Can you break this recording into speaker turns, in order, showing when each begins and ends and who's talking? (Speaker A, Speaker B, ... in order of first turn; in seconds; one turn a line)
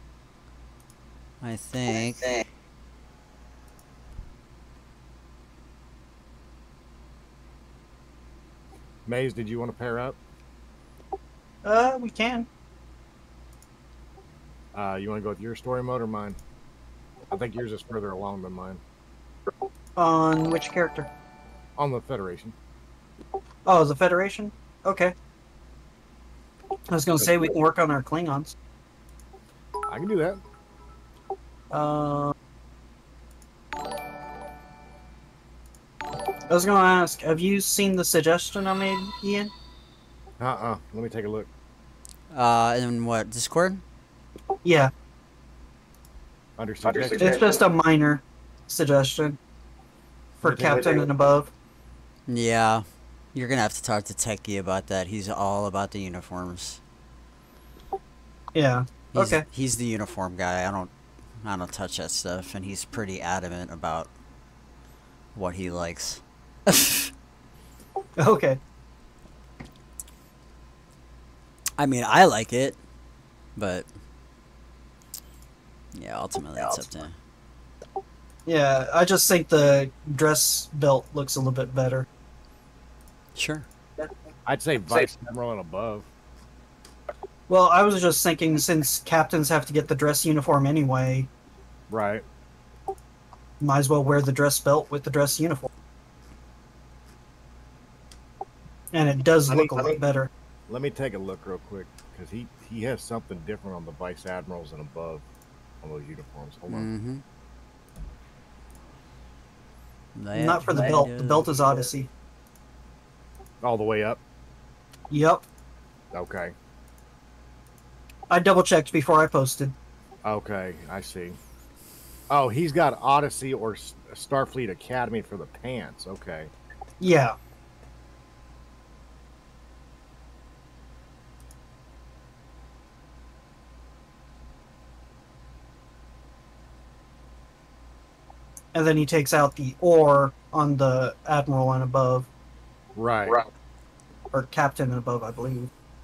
Speaker A: 1.4-2.4
Speaker B: 9.1-10.2
Speaker C: 11.6-12.5
Speaker B: 14.7-16.4
Speaker B: 17.3-18.8
Speaker C: 19.9-21.1
Speaker B: 21.8-22.5
Speaker C: 23.6-25.1
Speaker C: 26.9-28.5
Speaker B: 27.2-27.5
Speaker B: 29.9-30.4
Speaker C: 31.7-32.3
Speaker C: 36.5-39.5
Speaker B: 40.4-41.5
Speaker A: 42.3-43.8
Speaker C: 44.6-44.9
Speaker B: 46.6-47.5
Speaker C: 47.0-49.4
Speaker C: 50.4-51.5
Speaker A: 52.3-56.8
Speaker C: 58.5-59.4
Speaker A: 59.1-60.9
Speaker A: 61.4-64.1
Speaker A: 65.3-67.1
Speaker C: 68.2-68.6
Speaker A: 71.8-72.8
Speaker A: 73.5-73.9
Speaker A: 75.9-77.1
Speaker C: 78.5-82.1
Speaker A: 83.3-83.7
Speaker B: 84.5-86.0
Speaker C: 87.5-91.3
Speaker B: 91.9-92.2
Speaker C: 93.6-95.7
Speaker C: 98.9-100.3
Speaker B: 100.7-105.2
Speaker B: 105.8-106.9
Speaker A: 106.7-107.2
Speaker A: 110.1-111.7
Speaker C: 110.3-112.1
Speaker B: 113.6-114.2
Speaker C: 115.1-115.4
Speaker B: 116.1-116.5
Speaker C: 118.3-119.7
Speaker B: 120.2-121.4
Speaker B: 122.3-126.5
Speaker C: 127.0-127.3
Speaker C: 138.7-142.3
Speaker B: 142.9-143.4
Speaker C: 144.3-145.7